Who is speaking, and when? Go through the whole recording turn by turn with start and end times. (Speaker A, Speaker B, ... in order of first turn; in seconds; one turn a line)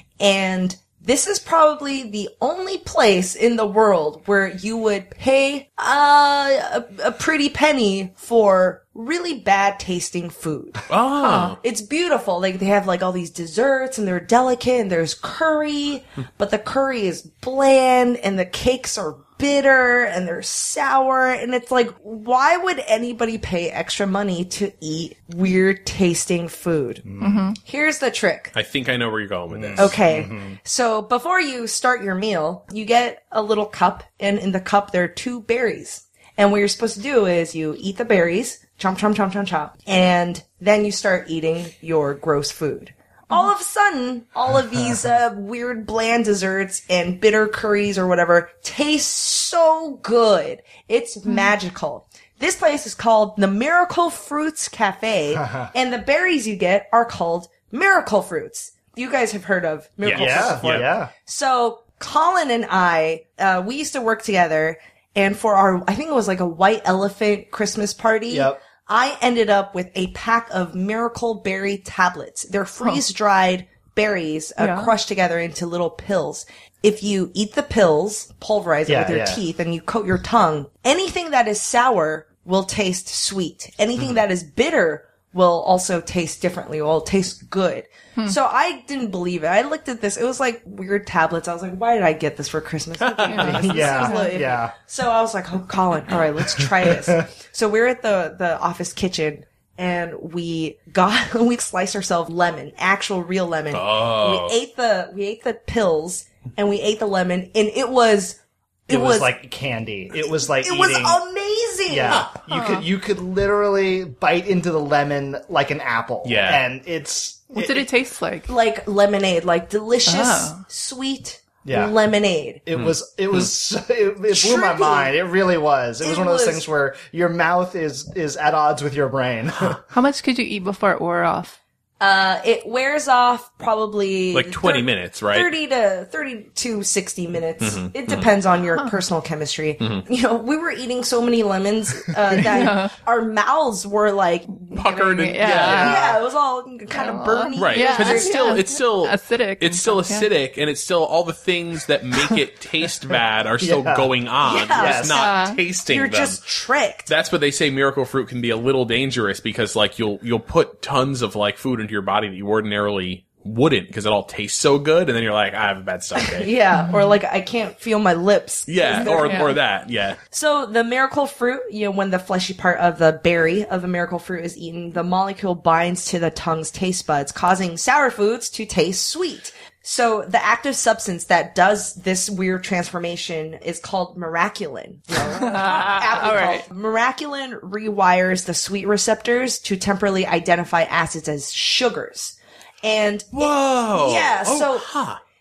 Speaker A: 0.2-27.1
Speaker B: 10.9-11.6
Speaker C: 27.1-27.5
Speaker D: 27.2-27.6
Speaker A: 27.6-28.5
Speaker B: 28.5-30.0
Speaker C: 29.5-30.6
Speaker A: 29.8-109.3
Speaker D: 51.3-51.5
Speaker C: 55.3-55.7
Speaker B: 60.0-60.9
Speaker C: 60.1-61.1
Speaker C: 68.3-68.6
Speaker D: 74.6-74.9
Speaker C: 78.9-79.4
Speaker B: 93.0-93.6
Speaker D: 93.2-94.4
Speaker C: 93.4-94.7
Speaker C: 96.6-97.3
Speaker B: 103.7-104.5
Speaker C: 108.9-111.2
Speaker A: 110.4-112.3
Speaker C: 111.9-117.9
Speaker B: 112.1-112.3
Speaker D: 112.5-112.9
Speaker B: 116.2-116.6
Speaker D: 117.5-118.5
Speaker A: 118.5-122.6
Speaker D: 120.1-120.6
Speaker C: 121.6-121.9
Speaker C: 122.7-129.8
Speaker A: 124.3-125.1
Speaker A: 126.0-126.7
Speaker D: 129.9-131.6
Speaker A: 132.0-144.8
Speaker B: 134.3-135.5
Speaker B: 137.6-138.3
Speaker B: 139.8-140.1
Speaker D: 142.4-142.9
Speaker D: 144.7-146.1
Speaker B: 144.7-146.1
Speaker A: 145.5-148.6
Speaker D: 146.9-150.3
Speaker B: 147.6-156.4
Speaker C: 153.6-155.3
Speaker A: 154.4-155.2
Speaker D: 155.1-155.6
Speaker A: 155.9-157.1
Speaker B: 157.1-166.5
Speaker A: 166.2-169.6
Speaker D: 166.8-167.1
Speaker B: 168.7-170.2
Speaker D: 169.0-169.5
Speaker A: 170.3-194.9
Speaker D: 185.2-186.7
Speaker B: 193.3-195.2